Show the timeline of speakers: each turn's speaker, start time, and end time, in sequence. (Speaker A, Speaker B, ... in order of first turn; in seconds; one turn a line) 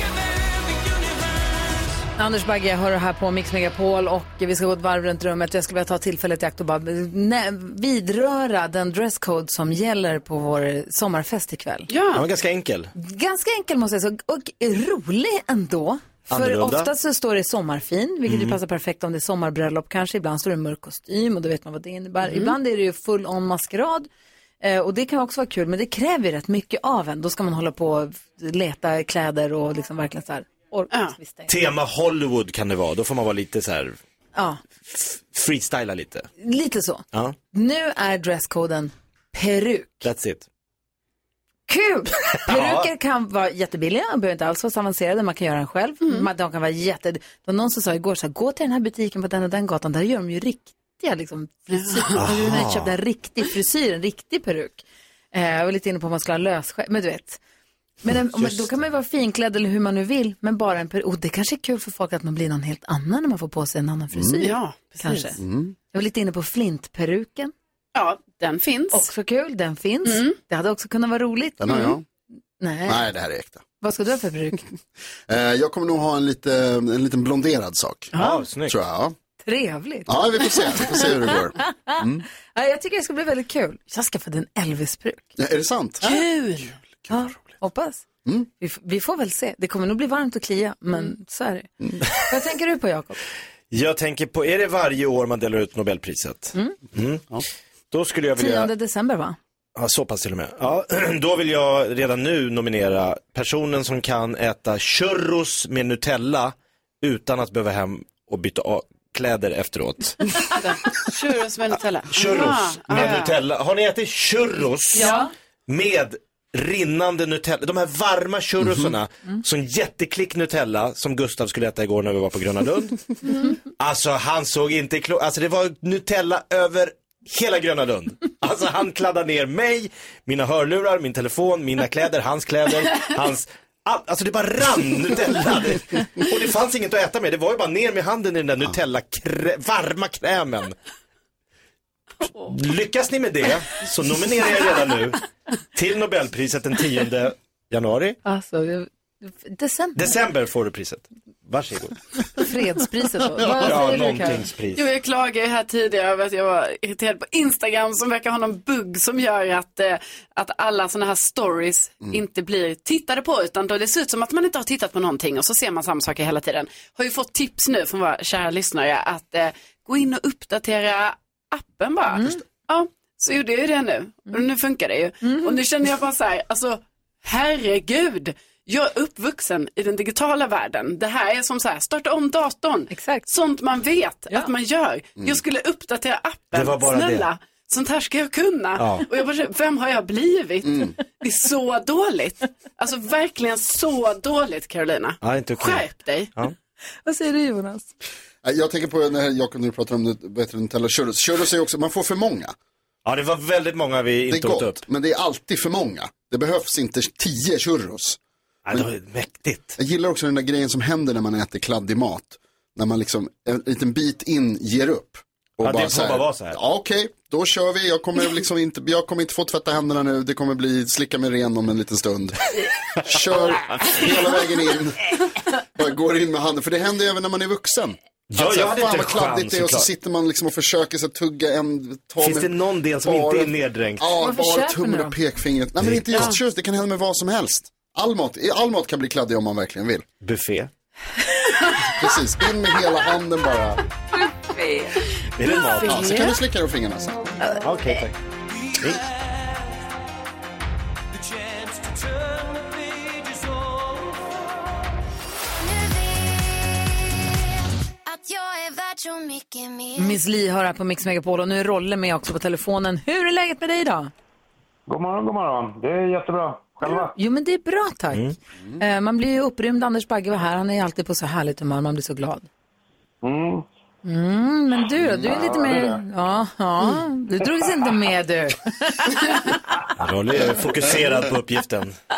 Speaker A: 2.2-11.9
Speaker B: 11.9-12.3
Speaker C: 12.1-12.9
Speaker A: 12.9-24.1
Speaker C: 16.3-16.9
Speaker C: 18.3-18.5
Speaker B: 22.2-22.6
Speaker A: 24.6-31.5
Speaker C: 31.5-34.0
Speaker A: 34.3-34.6
Speaker C: 34.9-36.3
Speaker A: 36.4-40.1
Speaker C: 40.0-40.4
Speaker A: 41.7-57.4
Speaker C: 42.5-42.9
Speaker B: 46.0-46.3
Speaker C: 52.1-52.9
Speaker A: 58.0-65.4
Speaker C: 58.3-58.7
Speaker D: 64.1-64.5
Speaker B: 64.4-65.4
Speaker D: 65.4-65.7
Speaker A: 65.9-67.5
Speaker B: 67.9-69.1
Speaker A: 68.9-72.0
Speaker B: 70.0-70.3
Speaker D: 71.6-72.0
Speaker A: 72.6-73.1
Speaker D: 72.8-73.6
Speaker A: 73.8-74.7
Speaker D: 75.3-79.1
Speaker C: 78.2-78.7
Speaker A: 79.4-82.0
Speaker D: 80.1-82.2
Speaker A: 82.5-85.3
Speaker D: 85.4-86.1
Speaker B: 86.0-86.7
Speaker D: 86.8-87.3
Speaker A: 87.1-88.0
Speaker A: 88.6-93.2
Speaker D: 91.8-92.0
Speaker C: 93.7-97.2
Speaker C: 97.9-98.7
Speaker A: 98.4-99.4
Speaker C: 99.8-110.5
Speaker B: 110.6-113.4
Speaker C: 112.1-123.0
Speaker A: 114.9-115.3
Speaker D: 118.6-118.9
Speaker C: 123.8-140.7
Speaker C: 142.4-145.2
Speaker C: 145.7-148.2
Speaker A: 148.2-150.1
Speaker C: 149.9-152.0
Speaker A: 152.4-154.4
Speaker D: 153.4-153.7
Speaker C: 153.6-154.9
Speaker B: 154.7-196.3
Speaker A: 172.1-172.4
Speaker A: 175.2-175.5
Speaker A: 182.9-183.2
Speaker C: 186.5-187.3
Speaker C: 188.8-189.0
Speaker D: 190.6-190.9
Speaker C: 195.2-196.5
Speaker A: 197.1-197.9
Speaker D: 198.4-202.6
Speaker C: 203.1-204.8
Speaker D: 204.3-208.2
Speaker C: 208.7-209.8
Speaker D: 209.8-222.5
Speaker C: 215.6-216.6
Speaker D: 223.0-225.1
Speaker D: 225.7-240.1
Speaker C: 228.3-229.9
Speaker C: 232.2-234.1
Speaker A: 234.2-235.1
Speaker C: 235.8-236.3
Speaker C: 240.2-240.7
Speaker D: 241.9-243.8
Speaker A: 244.2-246.1
Speaker C: 245.3-246.2
Speaker D: 245.8-247.3
Speaker C: 247.6-248.1
Speaker C: 248.8-249.1
Speaker E: 255.6-256.3
Speaker E: 258.1-260.2
Speaker A: 259.9-264.1
Speaker F: 264.9-267.1
Speaker A: 266.8-268.3
Speaker A: 268.8-272.4
Speaker F: 273.2-273.6
Speaker A: 274.0-279.6
Speaker D: 275.0-275.4
Speaker F: 275.2-276.0
Speaker C: 280.0-281.9